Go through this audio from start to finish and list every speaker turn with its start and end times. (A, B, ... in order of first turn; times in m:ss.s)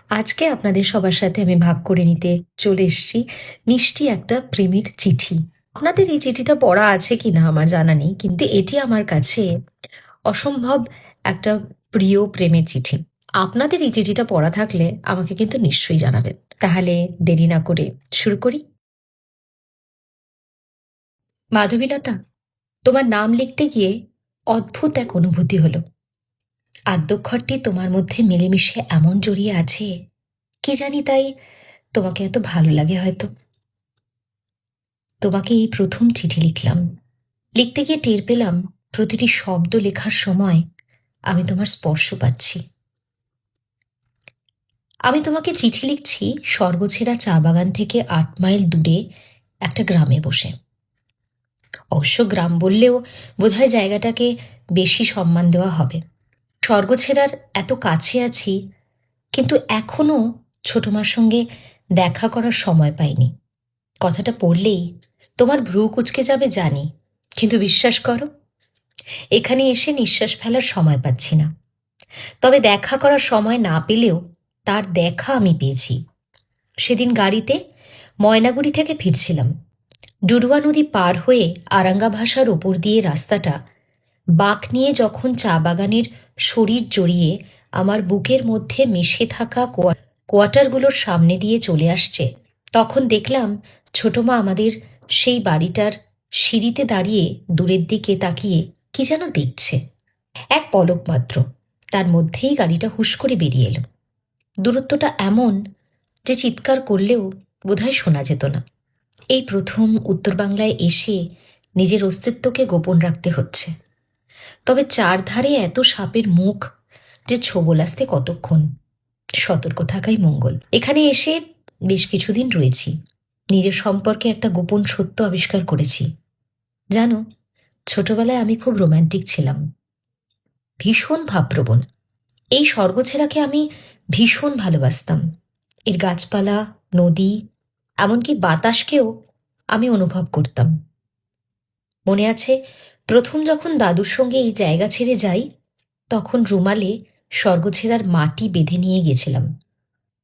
0:00.2-0:09.4 A
0:10.3-0:18.6 A
0:21.6-0:22.1 A
0:22.8-0:23.9 A
0:24.5-0:25.8 A
0:26.9-0:29.9 A
0:30.6-0:31.3 A
0:32.0-0:33.3 A
0:35.2-0:36.8 A
0:37.6-0:40.6 A
0:41.3-0:42.6 A
0:45.1-0:49.0 A
0:49.6-0:50.5 A
0:51.9-0:56.0 A
0:56.7-0:58.5 A
0:59.3-1:01.4 A
1:02.0-1:03.3 A
1:04.0-1:04.8 A
1:05.4-1:06.8 A
1:07.4-1:08.3 A
1:09.4-1:11.5 A
1:12.4-1:16.0 A
1:16.8-1:17.6 A
1:18.2-1:19.5 A
1:20.3-1:23.6 A
1:24.4-1:39.8 A
1:40.5-1:41.4 A
1:41.9-1:43.8 A
1:44.6-1:45.6 A
1:46.3-1:48.6 A
1:49.3-1:51.2 A
1:51.8-1:53.7 A
1:54.7-1:56.6 A
1:57.3-1:58.6 A
1:59.4-2:01.4 A
2:01.9-2:02.9 A
2:03.5-2:06.0 A
2:07.9-2:09.6 A
2:10.8-2:11.8 A
2:12.6-2:15.2 A
2:15.9-2:17.3 A
2:18.0-2:19.1 A
2:19.7-2:20.7 A
2:22.1-2:22.6 A
2:23.1-2:25.4 A
2:26.1-2:29.4 A